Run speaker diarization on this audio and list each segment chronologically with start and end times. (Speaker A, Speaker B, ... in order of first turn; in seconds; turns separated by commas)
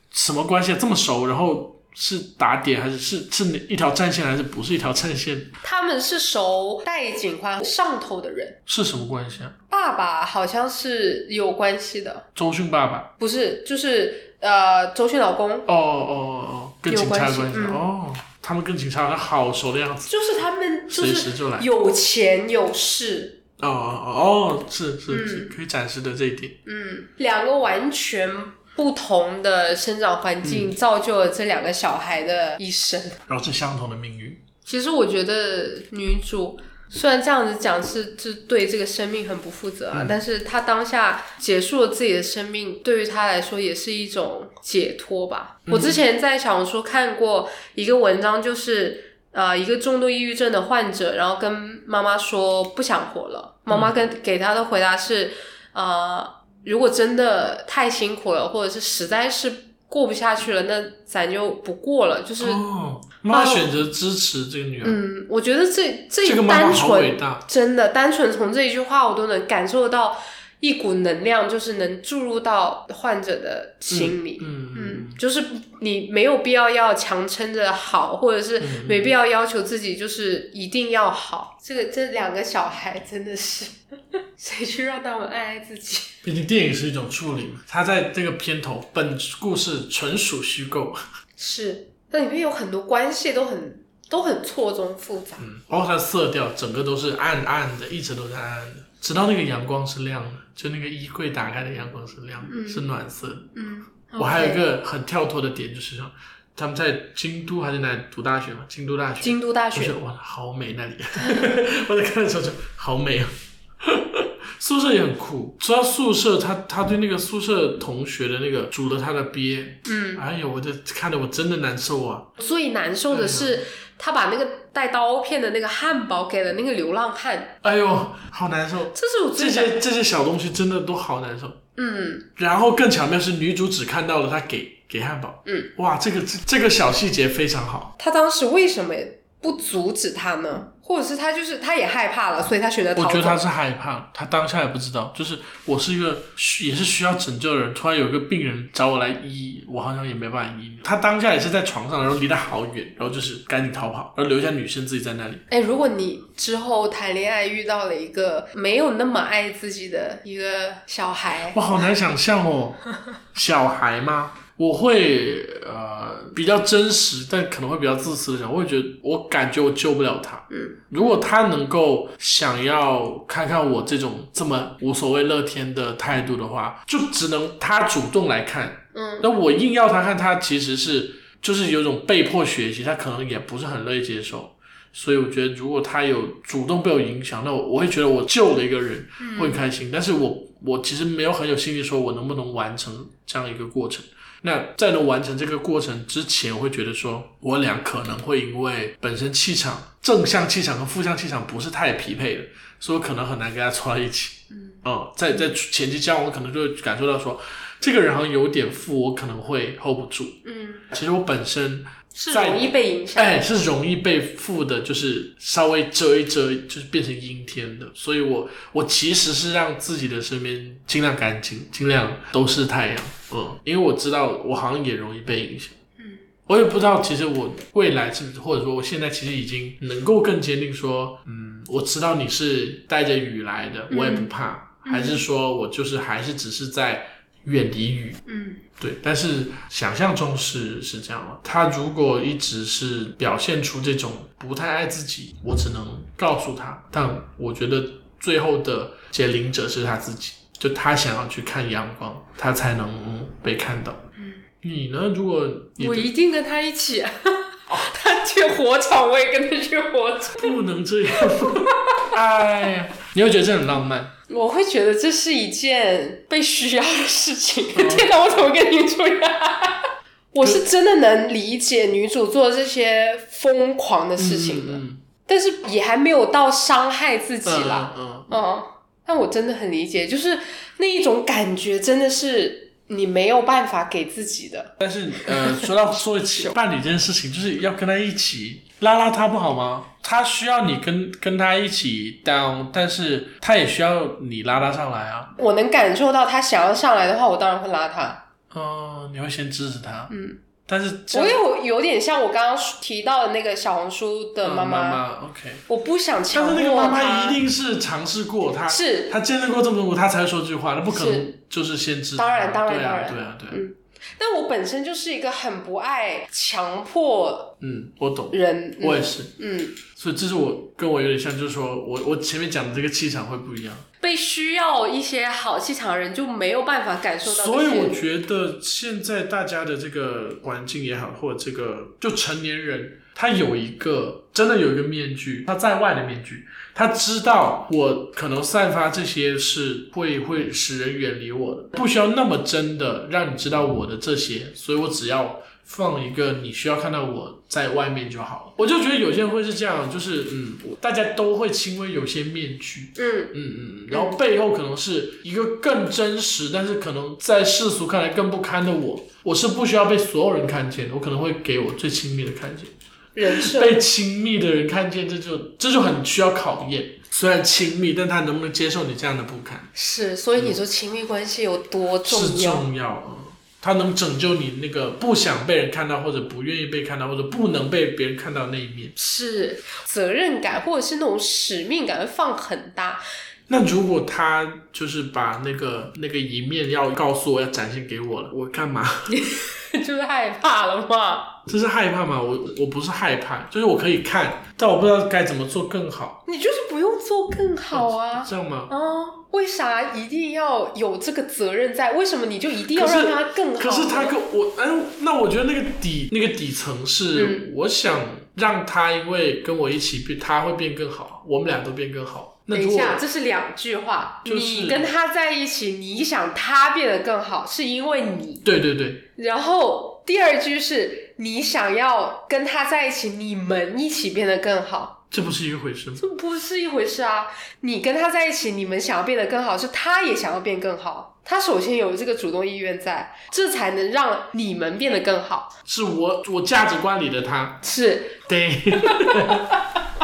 Speaker A: 0.1-5.6, Speaker B: 5.6-8.6, Speaker A: 8.7-9.6, Speaker B: 9.7-12.3, Speaker A: 12.3-13.1, Speaker B: 13.2-15.7, Speaker A: 15.7-20.4, Speaker B: 16.9-17.8, Speaker B: 20.1-23.4, Speaker A: 20.9-21.7, Speaker A: 23.6-26.6, Speaker B: 25.1-25.5, Speaker B: 26.7-33.2, Speaker A: 30.4-30.7, Speaker A: 33.3-34.4, Speaker B: 34.6-62.6, Speaker A: 45.7-46.0, Speaker A: 62.4-65.0, Speaker B: 63.3-63.7, Speaker B: 64.8-86.2, Speaker A: 66.2-67.4, Speaker A: 73.9-75.2, Speaker A: 78.6-79.1, Speaker A: 86.2-91.0, Speaker B: 91.4-95.4, Speaker A: 95.4-103.5, Speaker B: 102.5-102.9, Speaker B: 103.5-104.6, Speaker A: 104.2-113.3, Speaker B: 109.2-110.0, Speaker B: 111.2-111.5, Speaker A: 113.8-122.3, Speaker B: 119.8-120.2, Speaker B: 122.4-127.6, Speaker A: 123.1-123.6, Speaker A: 127.6-131.6, Speaker B: 128.9-129.8, Speaker B: 131.8-132.3, Speaker A: 132.4-137.9, Speaker B: 138.0-143.4, Speaker A: 143.0-155.4, Speaker B: 155.5-161.6, Speaker A: 161.5-162.8, Speaker A: 163.3-210.4, Speaker B: 170.5-170.8, Speaker B: 178.9-179.3, Speaker B: 189.2-189.6, Speaker B: 204.5-204.8, Speaker B: 210.4-210.9, Speaker A: 210.9-225.8, Speaker B: 212.1-213.4, Speaker B: 226.0-226.2, Speaker A: 226.5-238.2, Speaker B: 233.9-234.3, Speaker B: 234.8-235.2, Speaker B: 238.3-238.6, Speaker A: 238.8-254.0, Speaker A: 254.6-256.1, Speaker B: 255.8-260.6, Speaker A: 260.4-264.1, Speaker B: 261.2-262.0, Speaker B: 264.3-285.7, Speaker A: 267.8-268.1, Speaker A: 274.2-275.0, Speaker A: 277.4-278.3, Speaker A: 284.8-295.3, Speaker B: 295.4-298.2, Speaker A: 298.5-300.1, Speaker B: 300.1-300.4, Speaker A: 300.7-301.4, Speaker B: 301.1-305.0, Speaker A: 304.4-305.7, Speaker B: 305.7-307.4, Speaker A: 306.3-313.6, Speaker B: 308.7-309.1, Speaker B: 310.9-311.3, Speaker B: 312.2-317.6, Speaker A: 317.6-319.3, Speaker B: 318.3-319.8, Speaker A: 319.9-323.9, Speaker B: 324.0-328.0, Speaker A: 327.2-362.7, Speaker B: 353.0-353.3, Speaker B: 353.9-354.2, Speaker B: 363.2-363.8, Speaker A: 363.3-369.7, Speaker B: 369.8-372.6, Speaker A: 372.1-378.9, Speaker B: 379.0-383.0, Speaker A: 383.5-389.2, Speaker B: 389.1-391.4, Speaker A: 391.5-396.2, Speaker B: 396.3-404.2, Speaker A: 397.7-398.7, Speaker A: 402.7-413.0, Speaker B: 407.1-407.5, Speaker B: 412.5-418.4, Speaker A: 414.2-414.9, Speaker A: 418.4-419.1, Speaker B: 419.2-425.0, Speaker A: 425.1-426.0, Speaker B: 426.0-435.5, Speaker A: 435.7-437.6, Speaker B: 437.6-438.2, Speaker A: 438.3-439.6, Speaker B: 438.8-439.6